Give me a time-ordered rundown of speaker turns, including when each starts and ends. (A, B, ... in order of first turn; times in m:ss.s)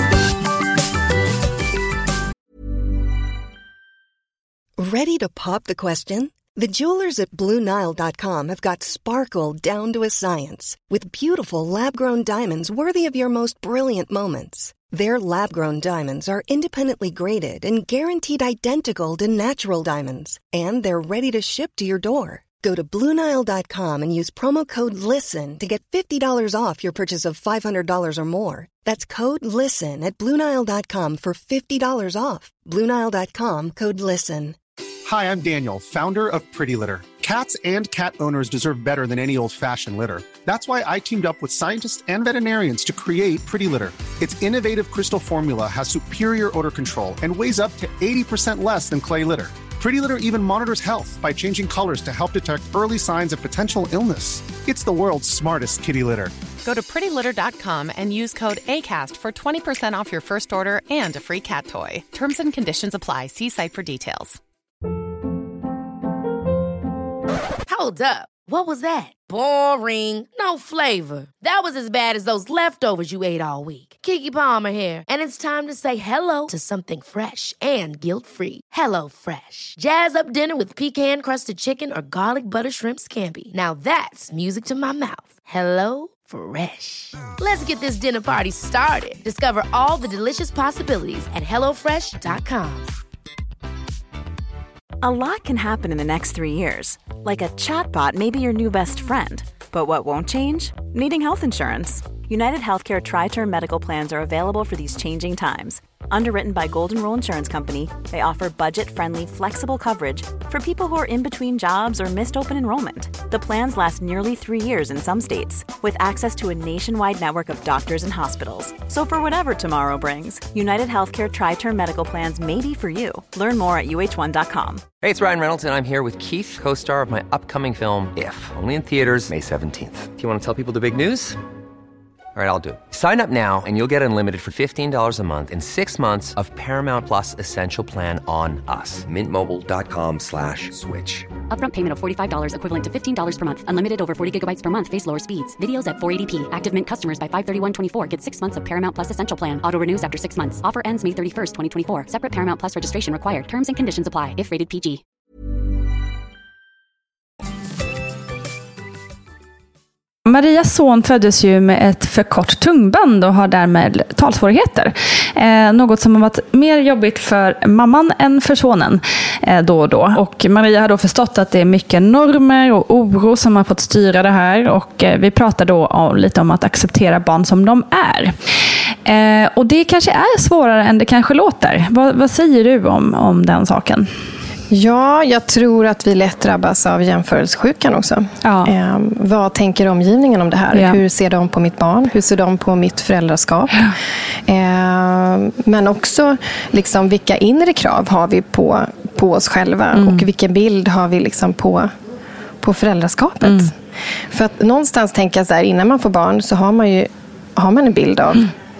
0:04.8-0:34.6 A
0:35.1-0:56.4 B
0:56.6-1:04.4 C
1:07.7-1:32.9 D
1:35.0-2:04.8 E
2:05.0-2:11.4 F
2:12.4-2:21.3 F
2:21.5-2:35.0 G
2:40.2-2:58.4 H
2:59.0-3:04.1 H
3:04.7-3:13.9 I
3:08.4-3:08.7 H
3:10.7-3:11.0 H
3:14.5-3:21.9 I
3:19.9-3:20.3 H
3:22.6-3:23.8 I
3:23.4-3:23.7 H
3:24.3-3:28.5 I